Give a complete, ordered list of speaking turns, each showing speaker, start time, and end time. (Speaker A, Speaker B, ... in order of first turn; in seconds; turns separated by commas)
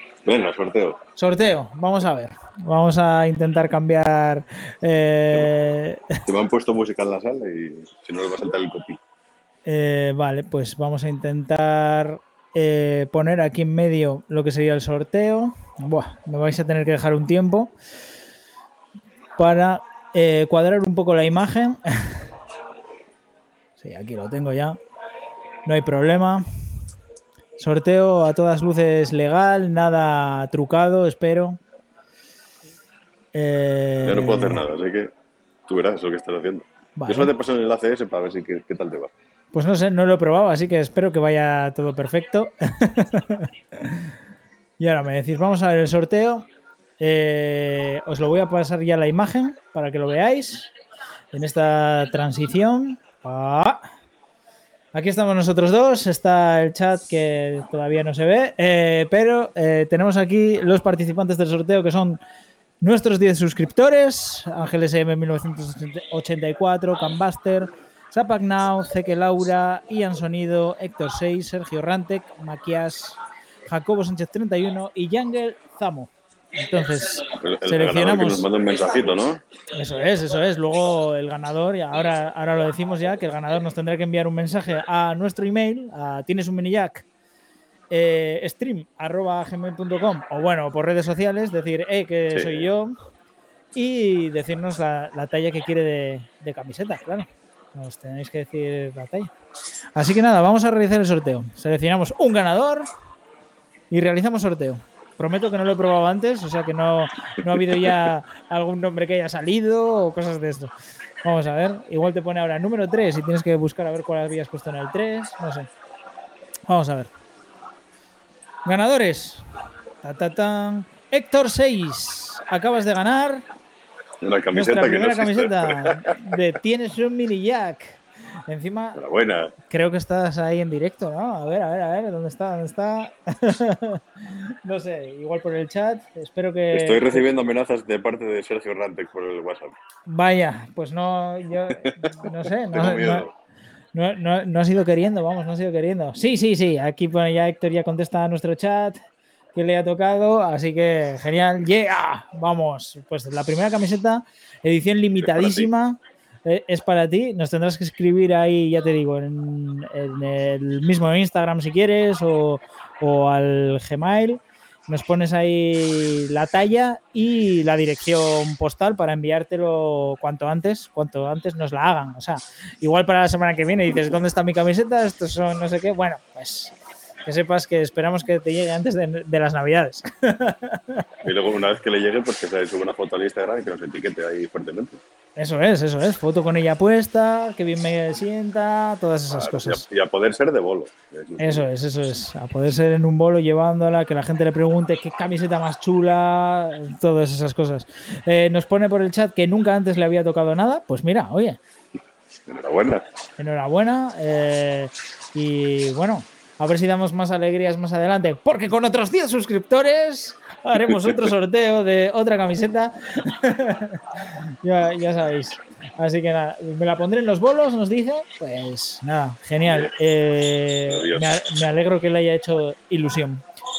Speaker A: 0.2-1.0, Speaker B: 1.2-6.2, Speaker A: 6.2-9.0, Speaker B: 9.7-17.7, Speaker B: 19.4-22.3, Speaker B: 23.8-24.8, Speaker B: 25.7-26.5, Speaker B: 27.6-31.6, Speaker B: 33.3-34.7, Speaker A: 34.0-35.1, Speaker A: 35.7-39.1, Speaker B: 37.0-37.3, Speaker B: 39.5-44.1, Speaker B: 44.8-46.5, Speaker B: 47.0-50.7, Speaker B: 51.3-53.9, Speaker B: 54.9-62.2, Speaker B: 62.8-78.5, Speaker A: 77.4-79.4, Speaker B: 79.8-87.1, Speaker B: 87.9-93.0, Speaker A: 92.3-92.7, Speaker B: 93.7-99.3, Speaker B: 100.0-102.9, Speaker B: 103.9-110.7, Speaker A: 107.5-107.9, Speaker B: 111.2-115.7, Speaker B: 116.7-117.1, Speaker B: 118.7-119.5, Speaker B: 120.0-123.4, Speaker A: 124.2-126.2, Speaker B: 124.5-129.0, Speaker A: 128.9-129.6, Speaker B: 129.7-137.2, Speaker A: 136.7-139.7, Speaker B: 140.1-143.3, Speaker A: 141.7-143.3, Speaker B: 143.9-149.0, Speaker B: 149.6-176.7, Speaker A: 155.2-155.7, Speaker B: 177.3-181.1, Speaker A: 181.2-185.0, Speaker B: 185.4-189.8, Speaker A: 189.3-191.7, Speaker B: 191.4-201.6, Speaker A: 202.5-203.1, Speaker B: 203.4-223.4, Speaker A: 210.9-211.2, Speaker A: 219.7-219.9, Speaker A: 220.9-221.4